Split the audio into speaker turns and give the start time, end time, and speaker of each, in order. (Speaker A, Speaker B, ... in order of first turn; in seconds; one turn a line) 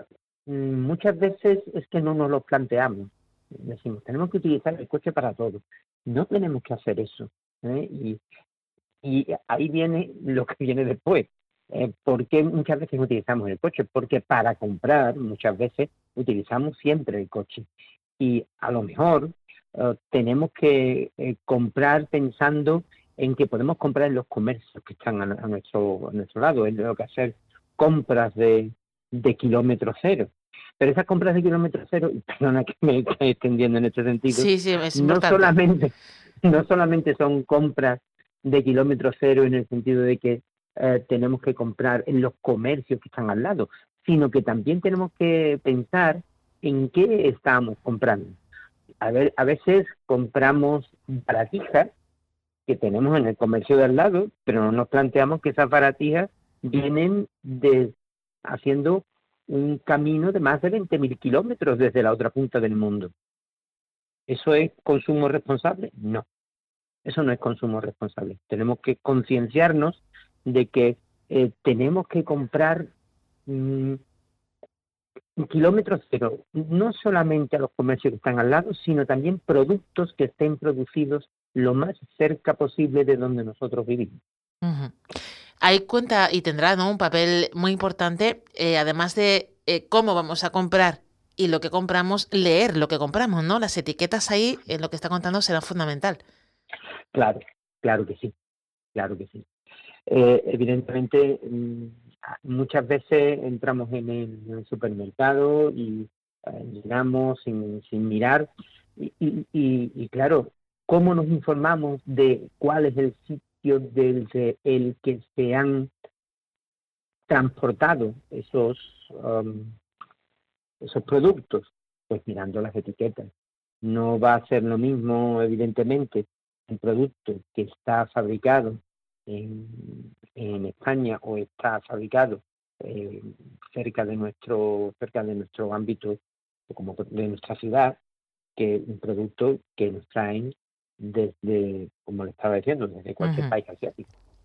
Speaker A: 0.5-8.2
Speaker A: 9.0-17.7
Speaker A: 18.2-48.4
Speaker B: 34.3-35.5
Speaker A: 49.0-51.9
Speaker A: 52.7-63.1
Speaker A: 64.3-66.3
Speaker A: 67.0-72.9
Speaker A: 73.5-74.0
Speaker A: 75.4-84.2
Speaker B: 84.6-84.9
Speaker B: 85.6-96.2
Speaker A: 97.1-98.3
Speaker A: 98.9-99.5
Speaker A: 100.1-115.9
Speaker A: 117.3-119.8
Speaker A: 120.8-123.3
Speaker A: 123.8-138.0
Speaker A: 138.6-144.1
Speaker B: 143.2-143.5